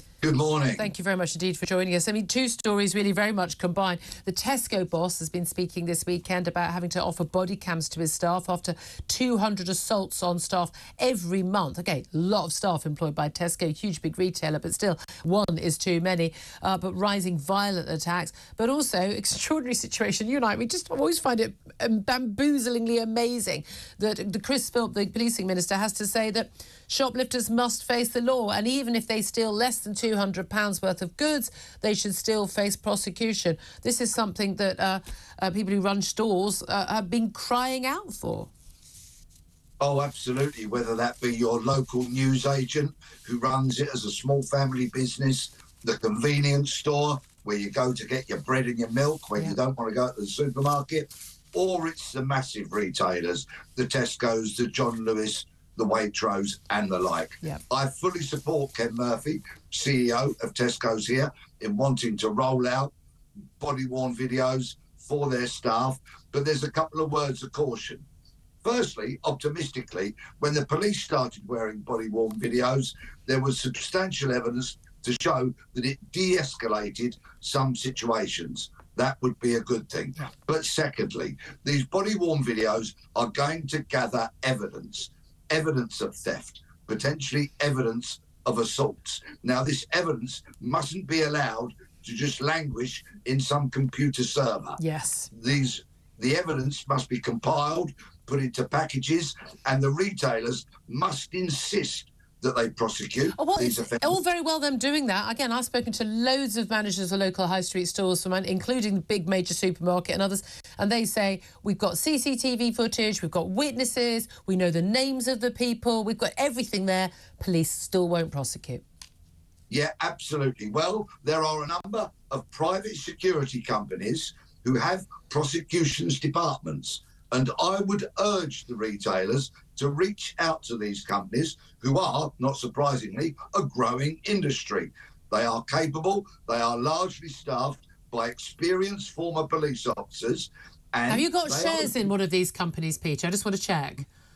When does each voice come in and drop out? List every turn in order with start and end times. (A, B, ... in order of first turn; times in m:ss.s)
0:00.2-0:00.9 A
0:00.7-0:38.5 B
0:39.8-1:02.9 A
1:03.6-1:08.0 A
1:08.6-1:34.8 A
1:34.8-1:35.3 B
1:35.3-1:44.2 A
1:43.4-1:58.8 B
1:59.7-2:22.1 A
2:21.1-2:24.0 B